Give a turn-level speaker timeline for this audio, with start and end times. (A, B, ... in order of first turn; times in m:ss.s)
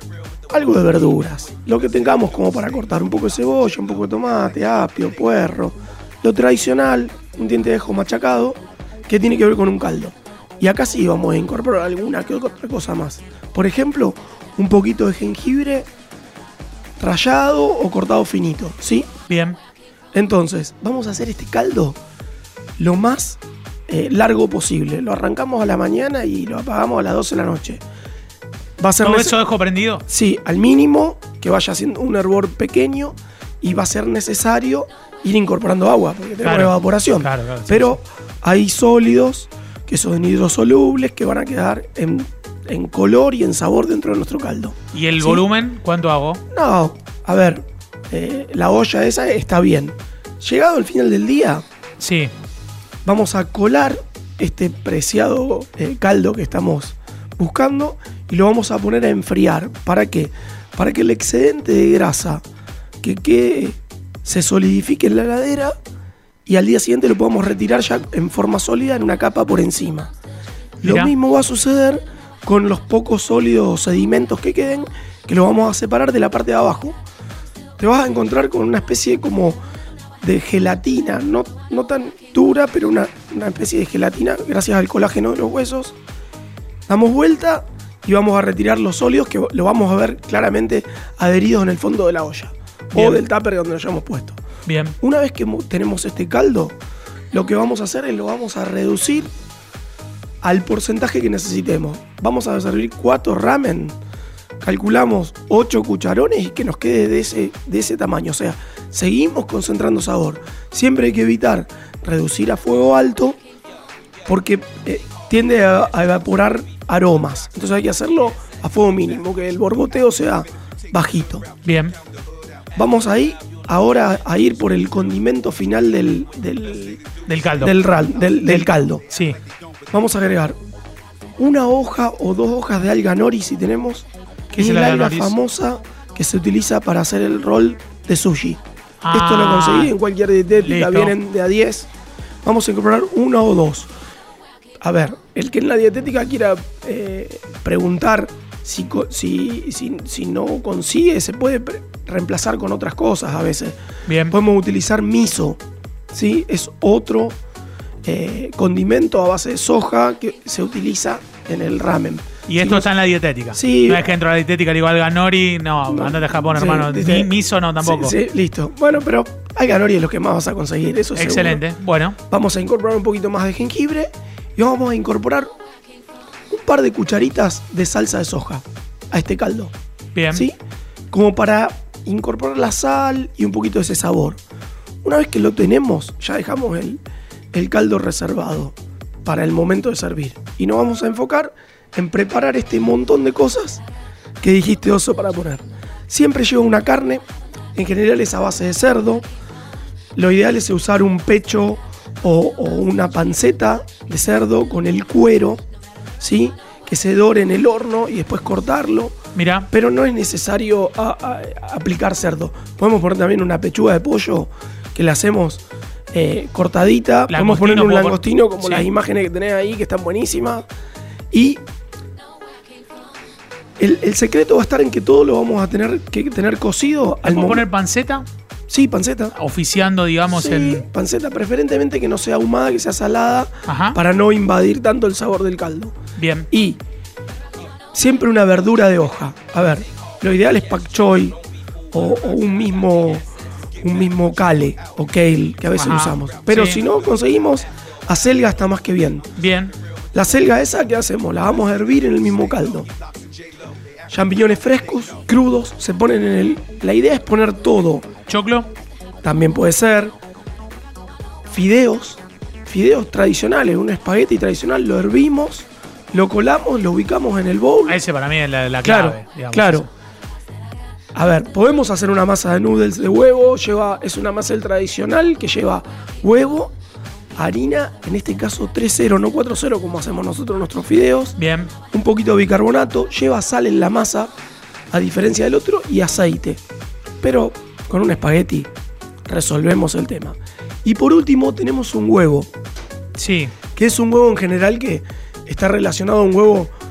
0:00.5-0:15.9 A
0:17.0-0:19.1 A
0:19.3-0:19.6 B
0:20.1-0:22.0 A
0:22.8-0:27.8 A
0:28.8-0:29.4 A
0:29.0-0:30.0 B
0:30.1-0:45.5 A
0:36.4-0:38.0 B
0:44.9-0:46.4 B
0:46.5-0:51.6 A
0:52.0-0:52.3 B
0:53.0-1:02.4 A
1:03.0-1:05.8 A
1:06.5-1:10.1 A
1:10.8-1:11.1 B
1:10.8-1:17.0 A
1:17.8-1:19.6 A
1:20.2-1:26.0 A
1:26.9-1:34.4 A
1:33.0-1:33.2 B
1:34.6-1:35.0 B
1:35.0-1:36.8 A
1:37.3-1:39.3 A
1:40.4-1:44.0 A
1:44.6-1:53.4 A
1:54.2-2:01.5 A
2:01.6-2:02.0 B
2:02.8-2:07.0 A
2:07.2-2:07.8 B
2:07.6-2:09.0 A
2:08.4-2:09.4 B
2:09.9-2:10.6 A
2:11.4-2:21.9 A
2:14.5-2:15.4 B
2:19.0-2:19.9 B
2:20.6-2:21.1 B
2:22.4-2:23.9 A
2:24.8-2:33.8 A
2:34.1-2:34.4 B
2:34.3-2:35.6 A
2:36.1-2:37.4 A
2:38.0-2:42.9 A
2:42.5-2:48.2 B
2:43.5-2:44.1 A
2:45.9-2:51.6 A
2:51.2-2:52.2 B
2:52.3-2:55.5 A
2:56.5-2:59.7 A
3:00.1-3:00.4 B
3:01.1-3:04.4 A
3:05.0-3:07.0 A
3:07.5-3:13.8 A
3:14.4-3:17.2 A
3:17.8-3:19.2 A
3:20.1-3:25.6 A
3:26.2-3:29.2 A
3:29.4-3:29.7 B
3:29.7-3:40.6 A
3:37.3-3:38.9 B
3:41.3-3:41.6 A
3:43.8-3:47.6 A
3:47.2-3:48.2 B
3:48.7-3:49.3 A
3:49.3-3:50.9 B
3:50.3-3:56.0 A
3:53.7-3:54.0 B
3:56.2-3:56.5 B
3:56.5-3:56.8 A
3:57.9-4:01.4 A
4:01.9-4:03.3 A
4:03.8-4:09.3 A
4:05.8-4:06.8 B
4:09.4-4:09.8 B
4:10.1-4:12.9 A
4:14.1-4:18.0 A
4:18.3-4:18.7 B
4:19.2-4:20.1 A
4:21.5-4:28.0 A
4:27.9-4:29.9 B
4:28.8-4:29.9 A
4:31.1-4:36.8 A
4:37.4-4:41.4 A
4:41.4-4:41.7 B
4:41.9-4:44.3 A
4:44.9-4:46.6 A
4:47.2-4:48.7 A
4:49.2-4:52.5 A
4:53.2-4:53.5 B
4:53.8-4:56.7 A